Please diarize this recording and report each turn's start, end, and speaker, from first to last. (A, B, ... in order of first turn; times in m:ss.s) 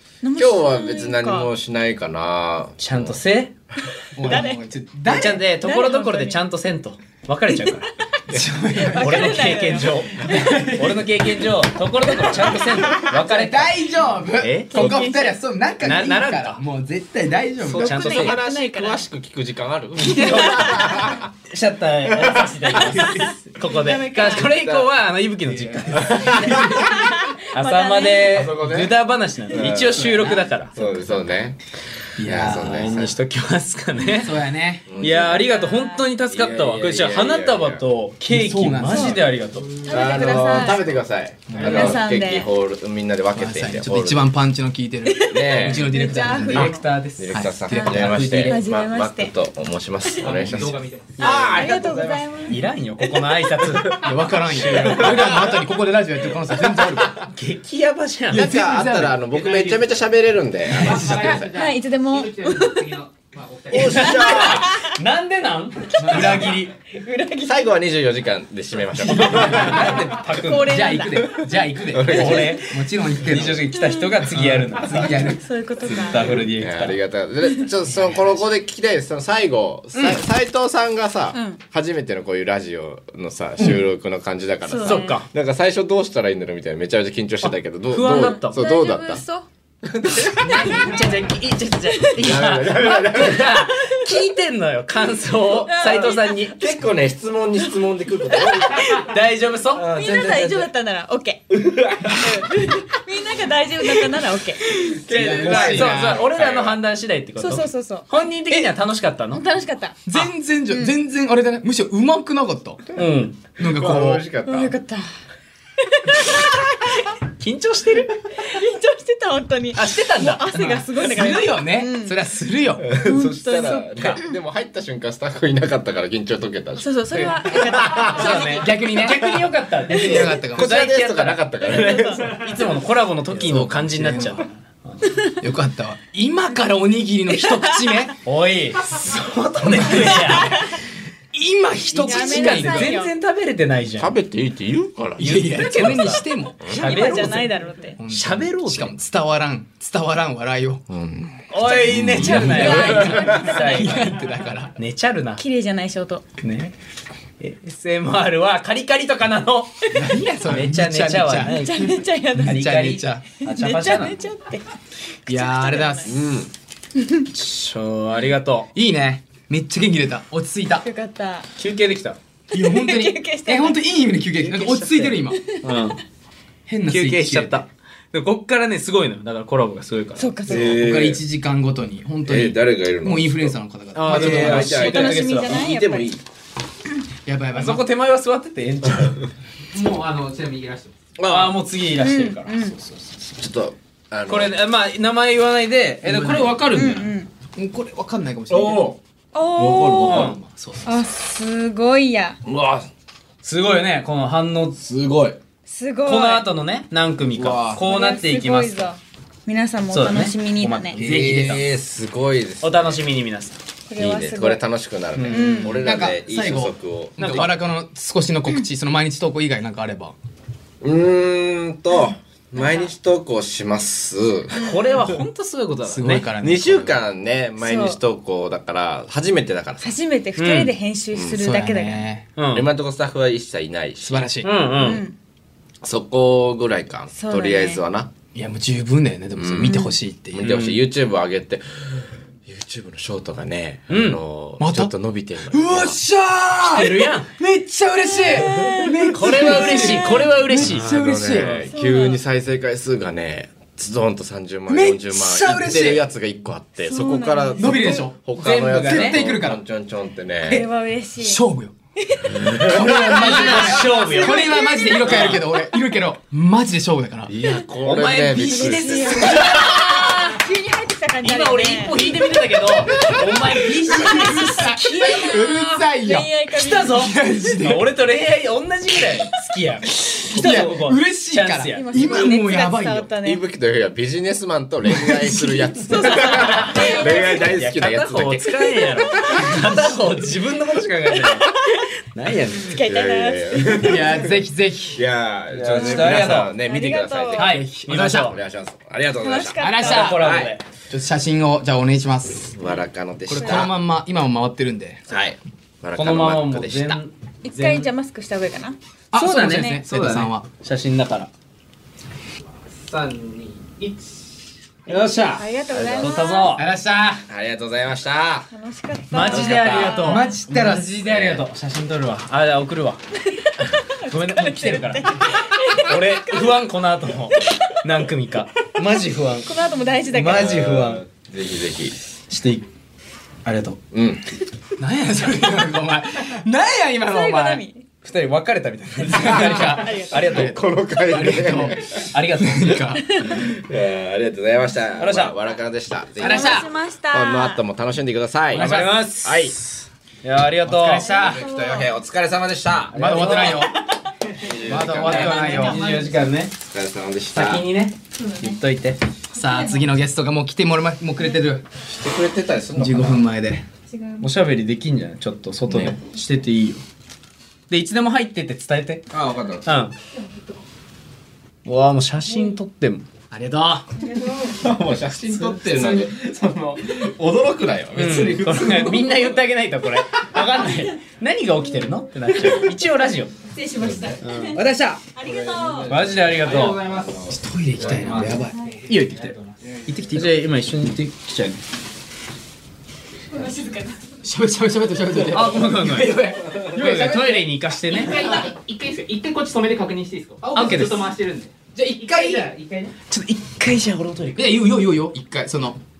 0:00.2-0:01.5 A
0:00.4-0:03.2 B
0:02.8-0:03.5 C
0:04.1-0:05.4 D
0:04.2-0:04.6 A
0:05.1-0:07.9 C
0:05.4-0:06.4 A
0:08.3-0:11.2 D
0:08.8-0:10.4 A
0:08.9-0:13.9 C
0:12.2-0:13.0 A
0:12.9-0:18.0 D
0:14.4-0:15.1 C
0:14.7-0:15.4 A
0:15.8-0:16.6 C
0:17.6-0:21.3 B
0:17.8-0:18.4 C
0:17.8-0:19.1 A
0:20.0-0:26.9 C
0:20.0-0:21.0 A
0:22.0-0:22.7 B
0:22.9-0:24.5 A
0:24.4-0:24.9 B
0:25.5-0:26.8 D
0:26.0-0:26.9 B
0:26.4-0:28.4 A
0:27.5-0:30.8 C
0:28.3-0:28.9 B
0:29.5-0:31.6 B
0:29.9-0:31.2 D
0:32.2-0:32.9 D
0:32.2-0:33.2 B
0:32.4-0:34.4 C
0:34.2-0:34.9 D
0:34.8-0:35.4 B
0:35.0-0:40.2 C
0:35.2-0:36.1 A
0:36.3-0:37.8 B
0:38.3-0:39.2 D
0:38.9-0:39.2 A
0:39.8-0:44.3 B
0:39.8-0:41.0 A
0:41.5-0:42.0 D
0:41.6-0:42.5 A
0:43.4-0:46.7 D
0:45.0-0:47.0 A
0:45.3-0:46.1 B
0:46.2-0:48.6 C
0:47.1-0:52.2 B
0:47.3-0:48.2 D
0:47.7-0:49.3 A
0:50.2-0:51.1 E
0:51.2-0:52.6 A
0:51.3-0:51.6 C
0:52.4-0:54.0 C
0:53.7-0:55.6 B
0:54.0-0:57.2 D
0:56.7-0:57.2 B
0:57.3-0:58.6 C
0:58.3-0:59.3 D
0:58.3-1:01.5 B
0:59.3-0:59.8 E
1:00.7-1:01.2 D
1:00.7-1:04.1 E
1:01.5-1:03.0 A
1:03.7-1:04.7 B
1:03.7-1:06.7 C
1:03.9-1:05.0 A
1:06.0-1:06.7 D
1:06.9-1:07.7 A
1:07.4-1:10.1 B
1:09.0-1:13.7 D
1:09.4-1:10.9 C
1:10.3-1:11.3 A
1:11.8-1:12.6 B
1:12.0-1:15.2 C
1:13.7-1:14.2 A
1:14.3-1:16.3 D
1:15.3-1:16.4 A
1:15.9-1:17.0 C
1:16.4-1:29.2 B
1:19.9-1:20.2 C
1:21.3-1:21.6 A
1:24.6-1:25.2 A
1:24.8-1:25.3 C
1:27.4-1:28.6 C
1:28.0-1:29.5 A
1:29.8-1:30.9 B
1:30.4-1:36.6 C
1:30.4-1:30.8 A
1:31.9-1:32.3 A
1:32.2-1:33.7 B
1:35.6-1:36.7 A
1:35.8-1:39.0 B
1:38.3-1:38.9 A
1:38.9-1:39.9 C
1:39.7-1:40.7 B
1:39.9-1:41.6 A
1:41.5-1:42.7 B
1:42.1-1:44.6 A
1:44.8-1:46.8 B
1:45.1-1:46.2 D
1:45.1-1:49.4 C
1:47.4-1:48.1 A
1:49.3-1:50.1 A
1:50.1-1:52.8 D
1:50.7-1:51.0 A
1:53.0-1:53.4 C
1:53.6-1:54.2 D
1:53.6-1:54.7 B
1:54.4-1:55.1 A
1:55.8-1:56.6 A
1:57.2-1:58.2 C
1:58.4-2:02.2 A
1:59.7-2:00.8 C
2:00.9-2:02.9 D
2:02.8-2:08.4 B
2:02.9-2:03.9 A
2:03.9-2:04.2 C
2:06.8-2:08.9 A
2:07.9-2:15.0 C
2:08.2-2:09.3 D
2:09.1-2:09.5 B
2:09.9-2:10.7 D
2:10.1-2:12.5 B
2:11.6-2:12.4 A
2:13.3-2:14.4 D
2:15.4-2:18.1 D
2:17.4-2:17.9 A
2:18.2-2:20.6 C
2:19.7-2:20.5 D
2:19.9-2:20.8 A
2:21.3-2:23.0 D
2:21.9-2:24.1 C
2:22.0-2:23.1 A
2:24.0-2:25.5 B
2:25.2-2:27.4 D
2:25.2-2:27.5 C
2:26.6-2:27.0 B
2:26.8-2:28.0 A
2:28.0-2:30.8 D
2:28.1-2:28.9 C
2:30.9-2:33.4 B
2:31.5-2:34.1 C
2:31.7-2:34.1 A
2:31.9-2:34.7 D
2:34.8-2:35.4 C
2:35.4-2:36.3 A
2:36.4-2:36.7 C
2:37.4-2:39.9 C
2:39.9-2:41.6 D
2:40.4-2:44.2 C
2:41.5-2:42.6 A
2:42.3-2:43.2 D
2:43.4-2:44.6 A
2:45.2-2:46.2 A
2:45.3-2:46.1 D
2:46.0-2:46.5 B
2:47.0-2:47.3 A
2:47.3-2:48.7 C
2:48.7-2:50.9 D
2:50.8-2:51.5 A
2:51.6-2:52.2 C
2:52.5-2:55.4 D
2:52.5-2:53.9 A
2:54.4-2:56.0 C
2:55.4-2:56.0 A
2:56.7-2:57.6 D
2:56.9-3:00.5 C
3:00.2-3:00.8 A
3:00.5-3:01.2 B
3:00.5-3:04.8 D
3:02.2-3:06.2 B
3:03.9-3:05.7 C
3:04.6-3:06.1 A
3:07.2-3:07.8 D
3:07.5-3:09.2 C
3:09.7-3:10.9 E
3:11.2-3:11.6 B
3:11.2-3:12.8 C
3:12.0-3:12.8 A
3:13.2-3:14.6 B
3:14.3-3:17.1 C
3:16.0-3:16.6 D
3:16.7-3:17.3 A
3:17.6-3:18.9 D
3:18.5-3:19.0 B
3:19.3-3:20.2 A
3:19.5-3:20.4 B
3:20.0-3:20.4 C
3:20.1-3:21.0 D
3:20.8-3:22.4 A
3:22.4-3:22.9 B
3:23.4-3:24.8 C
3:24.8-3:25.4 B
3:25.6-3:26.5 A
3:26.0-3:29.0 C
3:27.3-3:27.8 B
3:27.7-3:31.0 A
3:29.9-3:31.6 C
3:31.0-3:31.6 D
3:31.0-3:33.0 B
3:32.6-3:33.6 C
3:33.9-3:34.6 A
3:34.0-3:37.5 B
3:35.1-3:35.6 C
3:35.2-3:35.9 A
3:35.6-3:40.1 D
3:37.2-3:37.5 C
3:40.8-3:45.2 B
3:42.0-3:42.9 A
3:44.5-3:46.3 C
3:44.5-3:44.9 A
3:45.8-3:47.0 D
3:46.3-3:49.9 B
3:47.6-3:48.0 A
3:49.8-3:52.0 A
3:50.4-3:50.7 C
3:51.1-3:51.4 B
3:51.4-3:52.2 D
3:52.4-3:52.7 C
3:52.5-3:54.3 B
3:54.0-3:54.5 D
3:54.4-3:55.0 C
3:54.8-3:55.2 A
3:55.8-3:58.1 B
3:57.1-3:57.8 A
3:58.3-4:00.5 D
3:59.3-3:59.8 B
3:59.6-4:00.0 A
4:00.3-4:06.0 B
4:00.4-4:00.8 C
4:03.9-4:04.2 C
4:04.6-4:04.9 D
4:05.4-4:11.5 D
4:06.6-4:07.3 C
4:08.4-4:10.3 A
4:09.1-4:11.7 C
4:10.6-4:20.6 B
4:11.7-4:12.2 A
4:14.7-4:16.0 D
4:16.8-4:18.2 A
4:17.6-4:19.6 D
4:18.4-4:19.3 C
4:20.4-4:21.4 A
4:21.2-4:21.7 D
4:22.0-4:22.6 A
4:22.4-4:23.4 B
4:22.4-4:27.3 D
4:23.0-4:25.5 C
4:23.9-4:25.7 A
4:27.3-4:29.9 B
4:27.8-4:30.4 C
4:28.3-4:32.1 A
4:31.2-4:35.9 C
4:33.0-4:36.3 D
4:33.9-4:37.1 A
4:36.5-4:42.1 C
4:36.9-4:37.9 D
4:40.0-4:43.1 D
4:40.4-4:40.7 A
4:41.6-4:43.4 A
4:43.2-4:49.6 B
4:44.8-4:46.1 D
4:45.9-4:47.5 A
4:46.0-4:51.6 C
4:51.2-4:51.9 A
4:52.1-4:52.8 C
4:52.5-4:54.2 A
4:52.8-4:54.3 B
4:53.7-4:55.0 D
4:54.9-5:00.6 B
4:55.5-4:56.5 C
4:55.7-4:57.6 A
4:57.4-4:58.4 C
4:57.4-4:58.3 D
4:59.2-5:00.1 A
4:59.6-5:00.3 D
4:59.8-5:00.6 C
5:00.9-5:02.5 D
5:02.4-5:03.8 B
5:03.3-5:05.0 D
5:05.1-5:07.0 B
5:05.9-5:07.9 C
5:07.4-5:08.8 A
5:09.1-5:10.5 D
5:09.1-5:11.3 C
5:12.7-5:14.3 E
5:14.9-5:16.6 C
5:15.3-5:16.6 A
5:16.6-5:17.2 D
5:17.3-5:18.5 B
5:18.5-5:20.3 A
5:19.1-5:23.0 C
5:19.3-5:19.6 B
5:19.7-5:21.3 D
5:21.0-5:21.4 B
5:23.9-5:26.4 A
5:23.9-5:29.5 C
5:27.3-5:27.8 A
5:29.4-5:30.6 A
5:30.1-5:31.0 C
5:30.2-5:31.9 B
5:32.3-5:32.6 C
5:33.4-5:33.8 C
5:33.9-5:34.2 B
5:34.8-5:37.6 D
5:37.0-5:37.9 A
5:38.0-5:40.6 C
5:39.0-5:43.5 D
5:39.3-5:39.6 B
5:39.4-5:40.4 A
5:40.1-5:42.1 B
5:42.1-5:43.0 C
5:43.0-5:43.4 A
5:43.4-5:49.6 B
5:45.0-5:45.4 C
5:46.2-5:47.6 A
5:46.2-5:46.7 D
5:48.5-5:49.1 D
5:48.5-5:49.5 C
5:50.2-5:51.1 C
5:50.6-5:51.4 D
5:51.0-5:51.9 A
5:51.1-5:53.4 B
5:52.9-5:53.7 C
5:52.9-5:53.8 D
5:54.4-5:55.5 B
5:54.6-5:55.8 D
5:55.0-5:56.5 C
5:55.2-5:56.4 A
5:56.5-5:57.6 B
5:57.3-5:59.0 C
5:58.2-5:58.6 A
5:59.3-6:01.6 D
5:59.4-5:59.8 A
6:01.8-6:03.2 B
6:02.8-6:03.6 D
6:03.9-6:04.2 A
6:04.2-6:06.8 C
6:05.7-6:06.0 B
6:07.7-6:09.1 C
6:09.1-6:09.7 B
6:09.6-6:09.9 C
6:11.6-6:13.8 C
6:14.0-6:14.7 A
6:14.4-6:19.3 B
6:17.9-6:23.3 C
6:20.1-6:20.4 B
6:23.5-6:25.9 A
6:23.9-6:24.2 B
6:24.2-6:25.0 C
6:25.2-6:27.3 E
6:25.9-6:26.8 C
6:27.0-6:28.2 B
6:27.2-6:28.6 D
6:27.9-6:29.6 E
6:28.9-6:29.3 C
6:29.8-6:30.4 D
6:30.1-6:31.6 C
6:33.3-6:34.2 A
6:34.2-6:37.5 D
6:35.2-6:38.2 C
6:37.9-6:42.9 E
6:40.4-6:41.1 D
6:40.5-6:41.0 C
6:41.7-6:42.5 D
6:43.1-6:43.6 D
6:43.1-6:44.6 C
6:44.3-6:45.8 D